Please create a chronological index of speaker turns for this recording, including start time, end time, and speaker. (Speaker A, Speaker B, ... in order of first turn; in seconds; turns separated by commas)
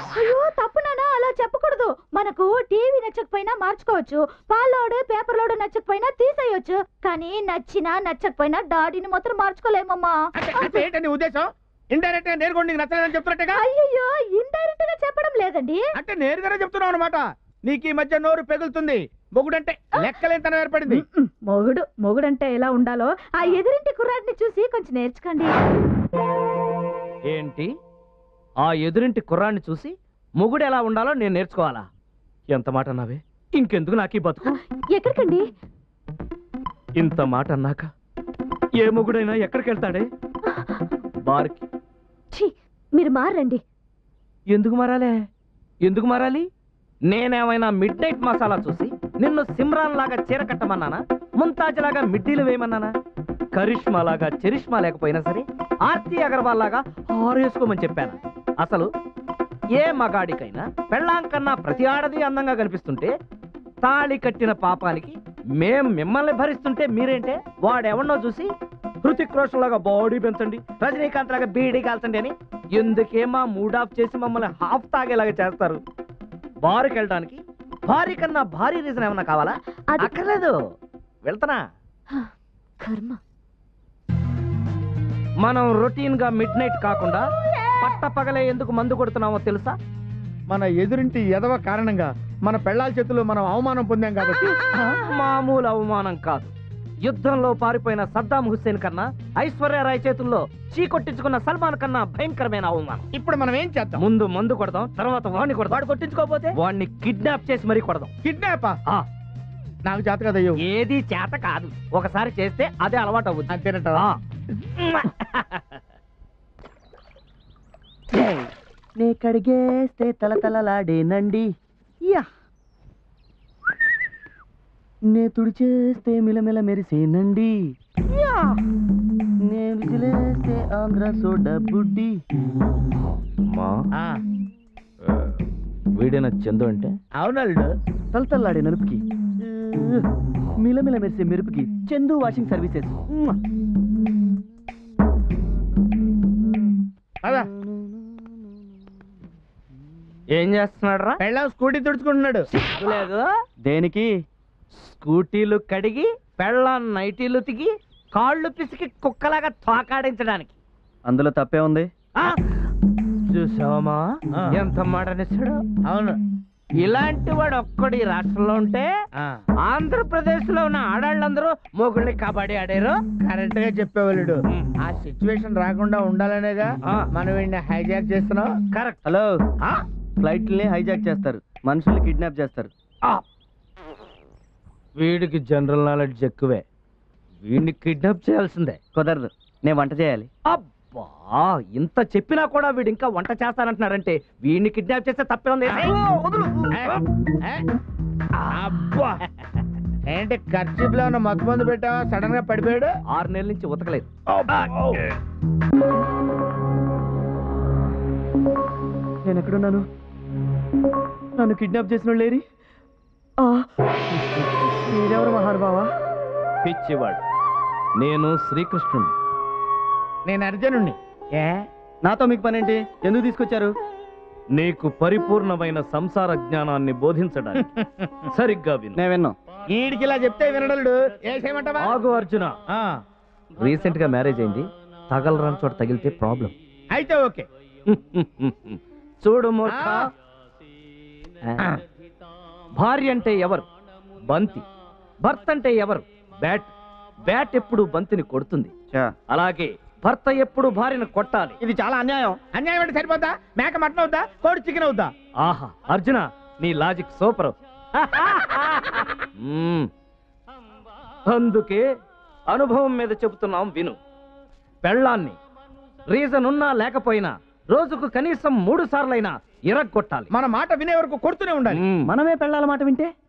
Speaker A: 0.1-10.9, Speaker B: 10.4-13.6, Speaker A: 13.5-15.8, Speaker B: 16.0-21.0, Speaker A: 20.0-20.2, Speaker A: 20.9-25.5, Speaker C: 27.3-27.7, Speaker C: 28.6-31.9, Speaker C: 32.5-34.5, Speaker D: 34.5-35.4, Speaker C: 37.0-37.9, Speaker C: 38.8-40.1, Speaker C: 41.2-41.6, Speaker D: 42.3-43.6, Speaker C: 44.5-45.1, Speaker C: 45.8-46.5, Speaker C: 47.1-52.9, Speaker C: 53.5-58.9, Speaker C: 59.8-63.1, Speaker C: 63.8-68.5, Speaker C: 69.0-75.8, Speaker C: 76.6-80.5, Speaker D: 79.9-80.1, Speaker C: 81.2-81.6, Speaker D: 82.8-83.2, Speaker C: 85.4-87.2, Speaker C: 87.8-89.8, Speaker B: 90.5-94.5, Speaker C: 94.7-96.5, Speaker C: 97.0-103.0, Speaker B: 103.1-104.0, Speaker C: 104.0-105.8, Speaker B: 105.7-106.5, Speaker C: 106.5-108.1, Speaker B: 108.2-108.8, Speaker B: 109.8-110.6, Speaker C: 110.6-115.8, Speaker B: 113.5-114.1, Speaker E: 118.1-121.5, Speaker E: 125.1-127.6, Speaker E: 129.4-132.2, Speaker C: 133.5-133.8, Speaker C: 135.0-135.4, Speaker C: 136.0-136.9, Speaker B: 137.2-137.7, Speaker E: 138.1-140.0, Speaker E: 140.6-143.4, Speaker B: 147.2-147.5, Speaker E: 147.6-148.3, Speaker C: 150.3-151.2, Speaker B: 151.2-152.5, Speaker C: 152.5-153.2, Speaker E: 153.6-154.1, Speaker C: 154.8-160.6, Speaker E: 161.1-161.9, Speaker C: 163.3-165.6, Speaker B: 165.8-166.2, Speaker C: 166.8-168.9, Speaker C: 169.6-173.0, Speaker B: 173.2-178.5, Speaker C: 178.7-179.0, Speaker E: 179.0-179.3, Speaker E: 180.2-182.7, Speaker C: 185.0-186.6, Speaker C: 187.4-188.8, Speaker E: 188.9-190.3, Speaker C: 190.5-196.0, Speaker B: 195.7-197.6, Speaker B: 198.5-199.2, Speaker B: 200.1-202.9, Speaker C: 203.1-204.1, Speaker B: 204.3-205.0, Speaker C: 204.6-205.0, Speaker E: 209.2-209.8, Speaker E: 211.4-212.4, Speaker E: 214.8-215.9, Speaker C: 216.6-217.2, Speaker C: 218.0-219.1, Speaker B: 220.2-221.6, Speaker E: 222.0-223.7, Speaker C: 224.6-227.6, Speaker B: 227.6-228.1, Speaker C: 228.3-229.0, Speaker E: 228.9-229.3, Speaker B: 229.7-232.0, Speaker C: 231.8-232.5, Speaker C: 233.6-236.5, Speaker B: 236.9-237.4, Speaker C: 237.9-240.1, Speaker B: 239.7-240.1, Speaker C: 242.8-243.6, Speaker C: 244.3-244.6, Speaker C: 245.2-246.7, Speaker C: 247.3-248.7, Speaker C: 249.3-251.6, Speaker E: 251.6-252.4, Speaker B: 252.5-255.1, Speaker C: 255.4-259.9, Speaker C: 261.3-261.8, Speaker C: 262.5-264.0, Speaker C: 264.8-265.4, Speaker C: 266.1-270.3, Speaker B: 270.3-271.8, Speaker C: 271.7-272.1, Speaker E: 272.1-273.1